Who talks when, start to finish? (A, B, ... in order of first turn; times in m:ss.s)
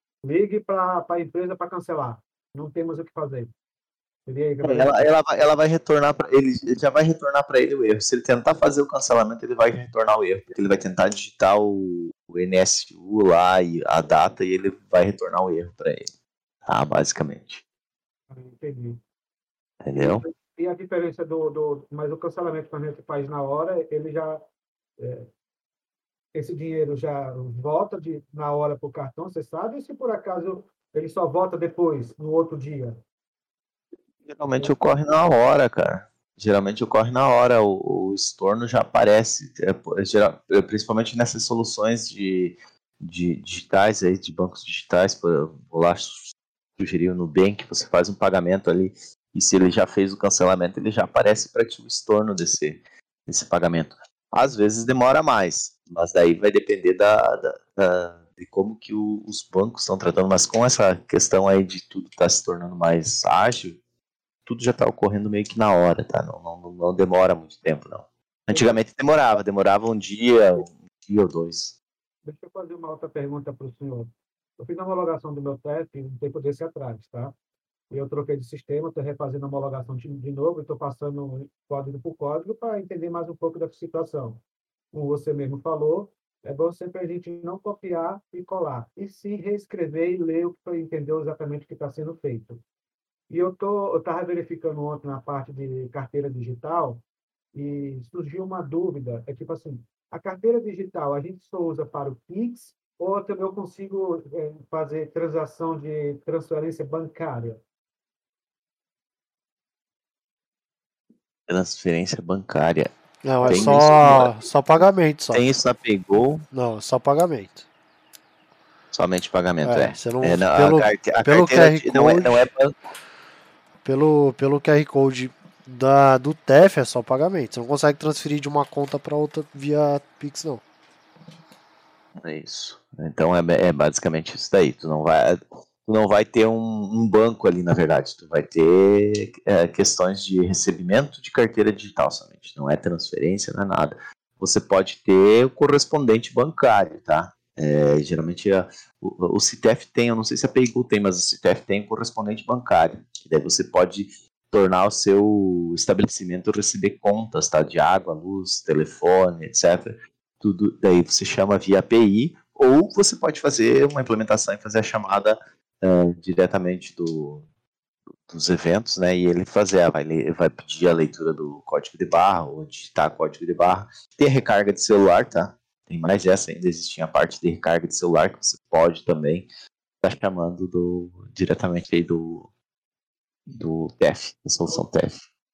0:00.2-0:03.5 A
0:04.3-0:05.0 A
0:04.6-0:16.1 B
0:16.6-0:17.6 B
0:18.3-0:19.0 A
0:19.8-0:20.3 B
0:20.0-0:24.4 A
0:25.0-0:25.3 A
0:26.3-0:33.0 A
0:34.3-1:03.8 B
1:04.4-1:11.8 B
1:08.5-1:08.8 A
1:12.2-1:17.3 A
1:17.9-1:24.4 A
1:24.9-1:32.6 A
1:33.3-1:37.0 A
1:37.5-1:47.6 A
1:51.5-1:52.9 B
1:53.2-1:55.4 C
1:53.4-1:54.1 A
1:53.4-1:54.3 B
1:55.3-1:56.4 B
1:56.5-1:57.6 C
1:58.9-2:02.7 B
1:59.6-2:02.5 C
2:03.8-2:10.6 C
2:12.2-2:47.4 B
2:48.3-2:59.5 B
3:00.0-3:02.5 B
3:03.5-3:05.2 B